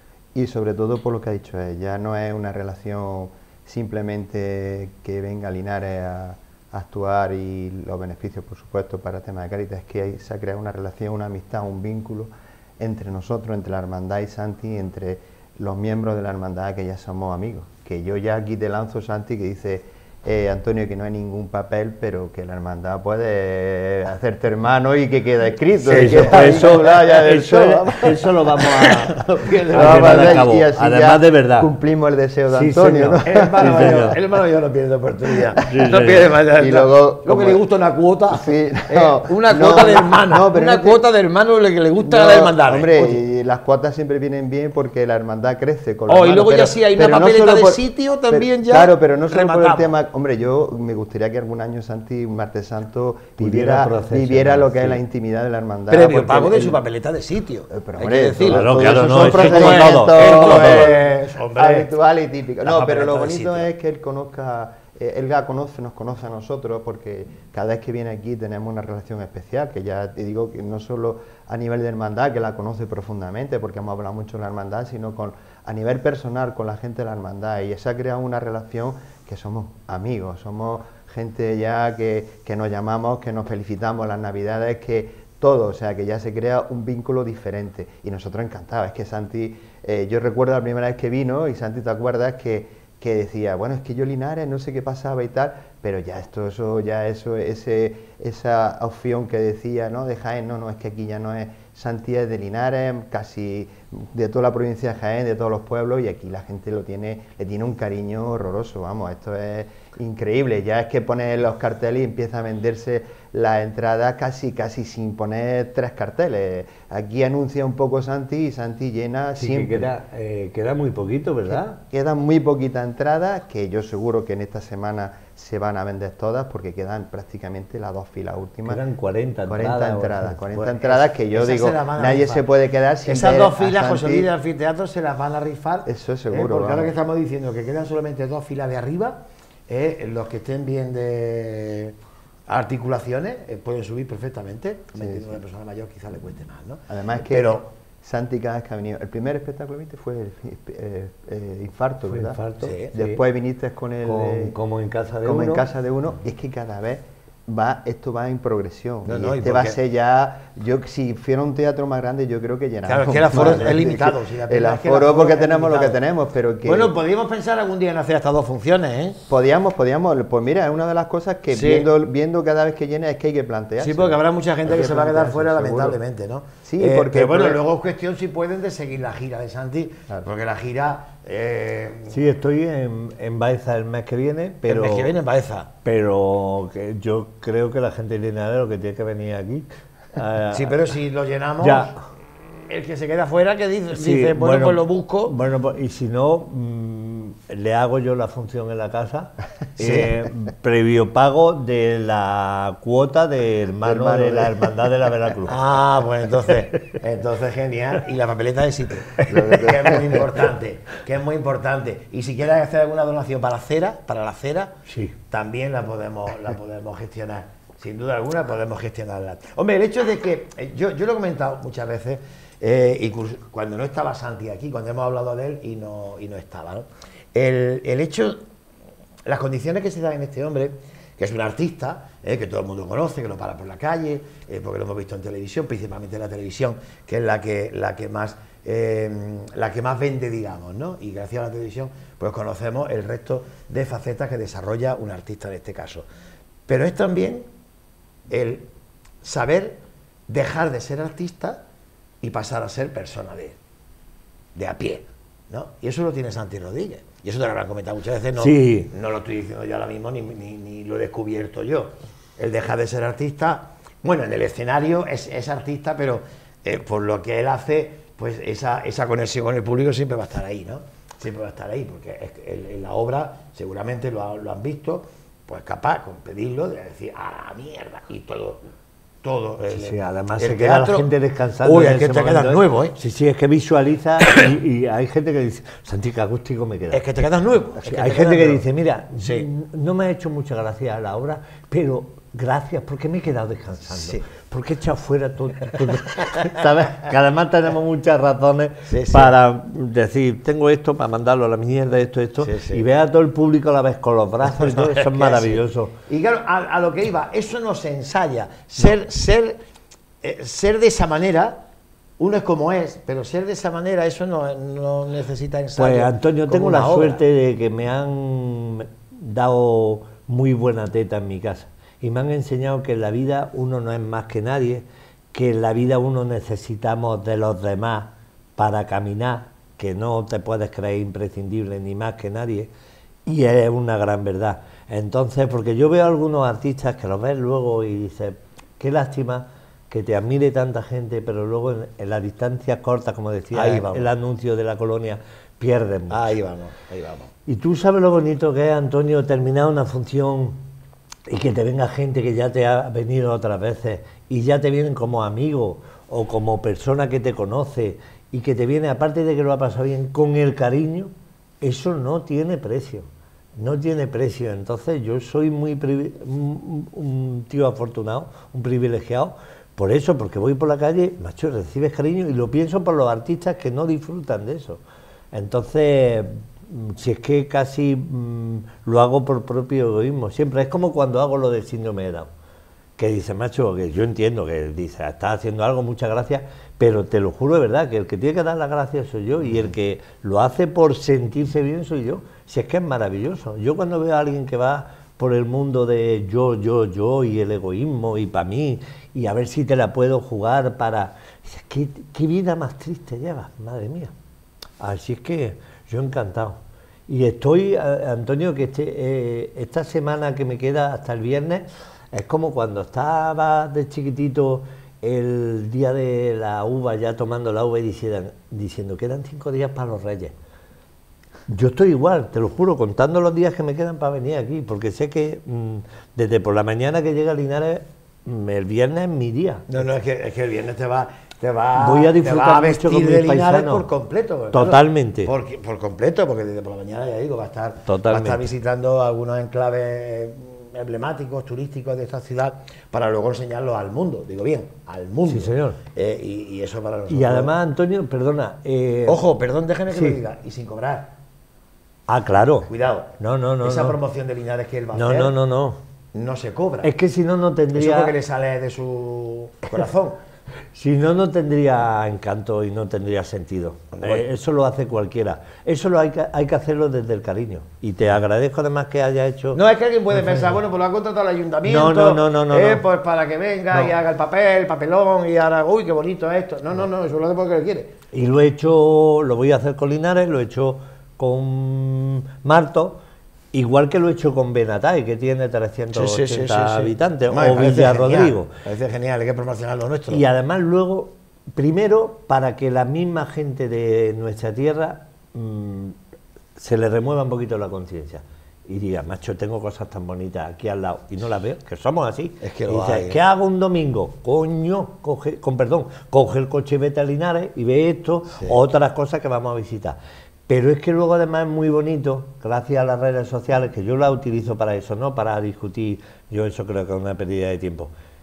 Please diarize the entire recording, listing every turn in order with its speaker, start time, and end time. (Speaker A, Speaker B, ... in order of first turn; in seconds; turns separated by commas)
Speaker A: 0.3-27.8, Speaker B: 25.8-30.5, Speaker C: 25.9-31.7, Speaker A: 29.7-34.2, Speaker C: 32.5-34.1, Speaker B: 33.2-43.2, Speaker C: 35.6-36.3, Speaker A: 36.5-37.6, Speaker A: 38.3-41.0, Speaker A: 42.0-56.8, Speaker B: 46.1-49.9, Speaker C: 53.4-55.0, Speaker B: 55.9-61.9, Speaker A: 57.7-119.9, Speaker C: 58.4-60.9, Speaker B: 62.6-63.7, Speaker C: 119.3-121.8, Speaker A: 121.5-128.8, Speaker C: 128.7-130.4, Speaker A: 129.5-134.3, Speaker B: 130.5-132.5, Speaker B: 133.0-141.9, Speaker A: 135.8-136.9, Speaker B: 142.5-147.6, Speaker A: 145.0-145.3, Speaker A: 146.9-152.4, Speaker C: 152.1-153.2, Speaker B: 152.6-152.9, Speaker A: 152.9-154.6, Speaker C: 154.0-155.7, Speaker A: 155.2-166.9, Speaker B: 159.0-159.8, Speaker B: 162.9-166.0, Speaker B: 166.6-169.2, Speaker A: 169.3-176.0, Speaker B: 171.5-171.9, Speaker B: 173.8-182.2, Speaker A: 176.6-177.6, Speaker C: 182.1-185.1, Speaker B: 184.6-185.7, Speaker C: 185.8-190.8, Speaker B: 190.5-191.9, Speaker C: 191.6-192.0, Speaker B: 192.7-195.3, Speaker C: 193.9-205.6, Speaker B: 199.8-200.2, Speaker A: 203.8-204.5, Speaker B: 205.4-214.8, Speaker A: 209.3-210.0, Speaker C: 209.3-210.2, Speaker C: 214.9-215.1, Speaker B: 215.3-228.4, Speaker B: 229.2-246.1, Speaker B: 246.7-247.4, Speaker B: 248.3-248.7, Speaker B: 249.2-251.6, Speaker B: 252.2-253.6, Speaker B: 254.5-278.6, Speaker C: 258.4-258.9, Speaker B: 279.2-281.1, Speaker C: 279.7-287.0, Speaker B: 281.6-283.0, Speaker B: 286.9-288.6, Speaker C: 287.8-305.9, Speaker B: 289.2-289.5, Speaker B: 293.9-294.2, Speaker B: 298.9-299.3, Speaker B: 302.4-302.8, Speaker B: 304.5-309.6, Speaker B: 310.2-311.6, Speaker B: 312.2-317.2, Speaker C: 315.8-332.7, Speaker C: 333.3-346.4, Speaker B: 343.5-344.1, Speaker B: 346.1-347.3, Speaker C: 347.5-350.6, Speaker C: 351.3-374.8, Speaker C: 375.3-382.3, Speaker C: 383.0-404.1, Speaker C: 404.8-420.3, Speaker C: 421.5-429.7, Speaker B: 429.7-447.5, Speaker C: 431.8-433.9, Speaker C: 434.5-435.3, Speaker C: 437.9-438.5, Speaker C: 445.3-445.8, Speaker C: 447.1-449.2, Speaker B: 449.1-451.1, Speaker C: 449.9-450.2, Speaker C: 452.1-454.0, Speaker B: 452.7-455.3, Speaker C: 454.9-455.8, Speaker B: 456.1-456.9, Speaker C: 456.8-458.1, Speaker B: 457.7-460.2, Speaker C: 460.7-469.6, Speaker B: 463.9-464.2, Speaker B: 469.5-477.9, Speaker C: 471.6-472.8, Speaker C: 478.1-483.0, Speaker C: 483.5-488.5, Speaker B: 485.9-490.2, Speaker C: 490.1-496.0, Speaker C: 496.6-517.9, Speaker B: 502.4-503.2